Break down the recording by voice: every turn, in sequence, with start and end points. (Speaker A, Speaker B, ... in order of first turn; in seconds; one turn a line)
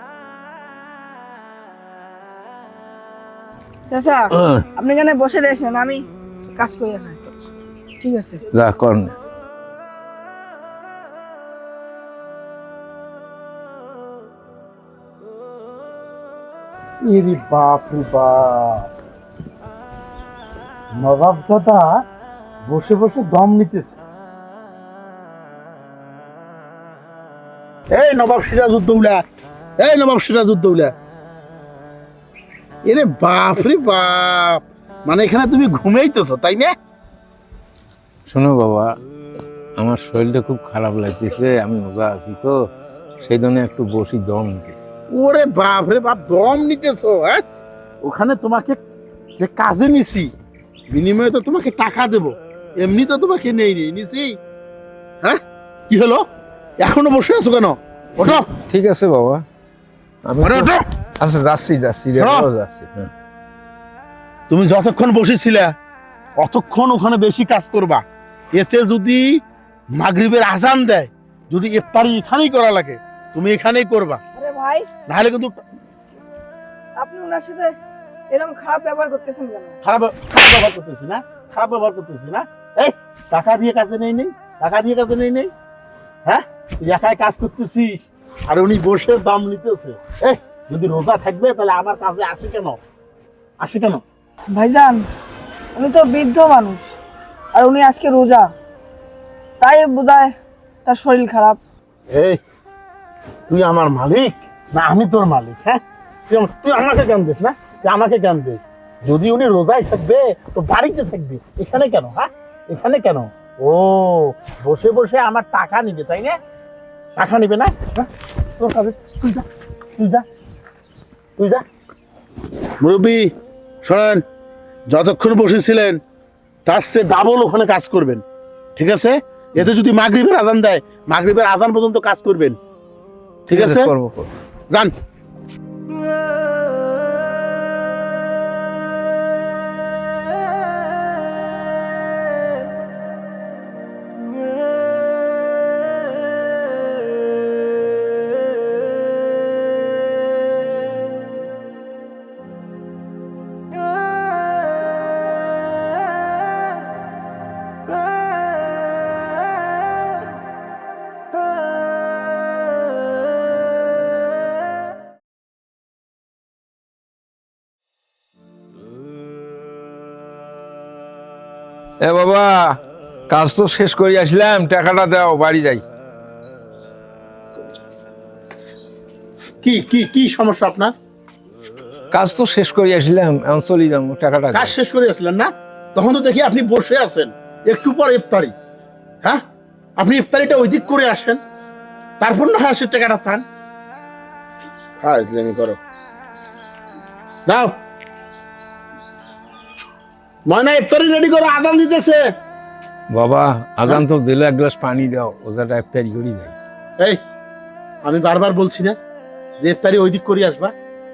Speaker A: 3.9-7.2
Speaker B: 4.3-4.6
Speaker A: 8.0-8.4
Speaker B: 8.5-9.2
Speaker C: 17.0-18.9
Speaker C: 20.9-22.0
Speaker C: 22.6-24.0
Speaker C: 27.9-29.2
Speaker C: 29.8-30.9
Speaker C: 32.9-36.7
Speaker B: 38.3-38.9
Speaker B: 39.8-42.6
Speaker B: 43.2-44.9
Speaker C: 45.1-47.4
Speaker C: 48.0-48.8
Speaker C: 49.4-50.3
Speaker C: 50.9-54.4
Speaker C: 55.2-56.2
Speaker C: 56.8-58.4
Speaker B: 58.2-59.4
Speaker B: 60.2-63.1
Speaker C: 60.4-60.8
Speaker C: 62.1-62.5
Speaker C: 64.5-65.7
Speaker C: 66.4-68.0
Speaker C: 68.5-69.3
Speaker C: 69.9-74.2
Speaker A: 74.3-74.9
Speaker C: 75.1-75.5
Speaker A: 77.0-77.8
Speaker A: 78.3-79.8
Speaker C: 79.8-85.5
Speaker C: 86.2-92.8
Speaker C: 93.6-94.0
Speaker A: 94.5-95.1
Speaker A: 95.7-97.0
Speaker A: 97.5-98.5
Speaker A: 99.6-100.3
Speaker A: 100.8-101.6
Speaker C: 102.1-102.4
Speaker C: 103.5-116.4
Speaker C: 117.2-119.4
Speaker C: 120.0-120.2
Speaker C: 121.4-121.6
Speaker C: 122.8-123.3
Speaker C: 123.8-124.2
Speaker C: 124.9-126.0
Speaker C: 126.7-128.2
Speaker C: 128.8-132.6
Speaker B: 133.5-134.3
Speaker C: 133.5-133.9
Speaker B: 172.0-172.7
Speaker B: 173.3-175.8
Speaker C: 179.6-180.9
Speaker B: 182.1-184.7
Speaker C: 184.5-188.5
Speaker C: 190.0-191.4
Speaker C: 192.2-193.4
Speaker C: 195.0-195.8
Speaker C: 200.5-202.2
Speaker B: 203.1-206.6
Speaker C: 208.0-209.0
Speaker C: 209.6-210.7